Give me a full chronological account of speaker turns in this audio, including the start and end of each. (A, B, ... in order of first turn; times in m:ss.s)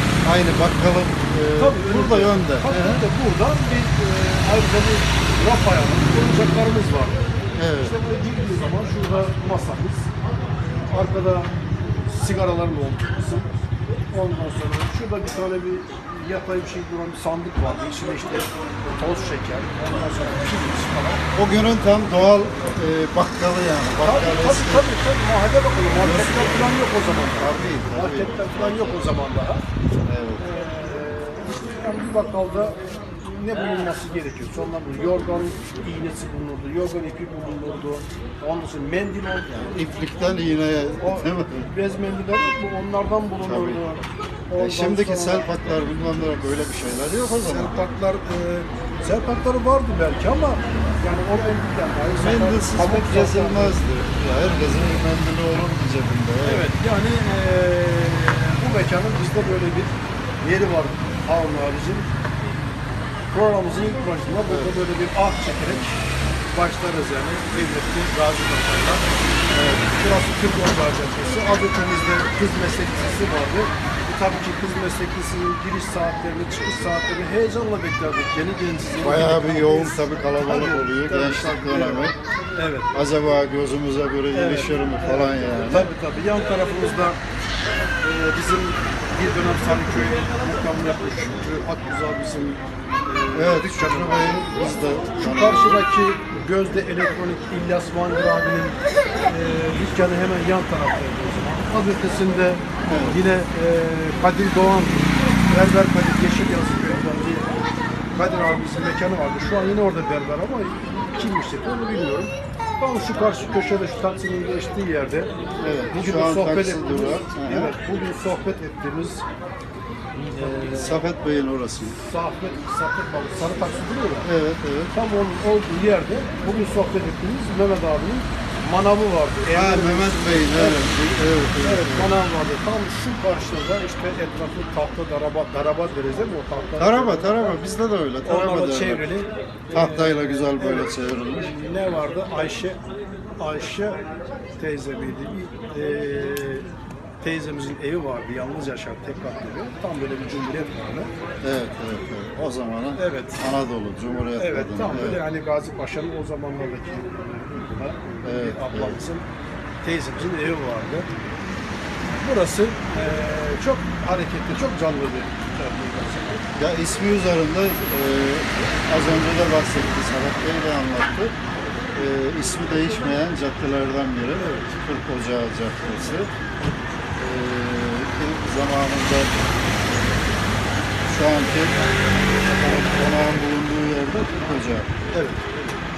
0:00.2-0:03.0 A
0:01.6-0:21.3 B
0:07.6-0:07.9 A
0:21.3-0:24.9 A
0:24.0-0:29.7 B
0:25.9-0:26.8 A
0:27.4-0:29.0 A
0:30.0-0:30.4 A
0:30.4-0:39.8 B
0:39.6-0:41.7 A
0:41.0-0:45.5 B
0:43.4-0:43.8 A
0:44.6-0:47.8 A
0:47.4-0:53.8 B
0:52.2-0:56.7 A
0:56.4-1:02.1 B
1:03.3-1:09.1 B
1:04.5-1:04.7 A
1:09.5-1:09.8 A
1:09.9-1:23.0 B
1:19.0-1:22.1 A
1:22.9-1:25.9 A
1:24.3-1:27.2 B
1:28.0-1:55.3 B
1:33.3-1:35.8 A
1:42.9-1:43.2 A
1:55.6-1:57.7 A
1:55.9-1:59.2 B
2:00.3-2:01.0 B
2:00.3-2:02.0 A
2:01.9-2:04.3 B
2:04.2-2:04.9 A
2:04.9-2:10.9 B
2:09.5-2:12.1 A
2:11.6-2:17.6 B
2:16.8-2:19.0 A
2:18.2-2:22.8 B
2:19.7-2:21.5 A
2:23.4-2:26.7 B
2:27.2-2:31.1 B
2:31.4-2:35.2 A
2:33.0-2:33.4 B
2:34.4-2:39.3 B
2:38.2-2:39.0 A
2:39.8-2:41.1 B
2:42.0-2:46.4 B
2:46.5-2:51.3 A
2:51.9-2:56.3 A
2:57.2-2:59.3 A
3:01.0-3:01.7 A
3:02.5-3:02.8 B
3:02.5-3:05.0 A
3:05.0-3:05.8 B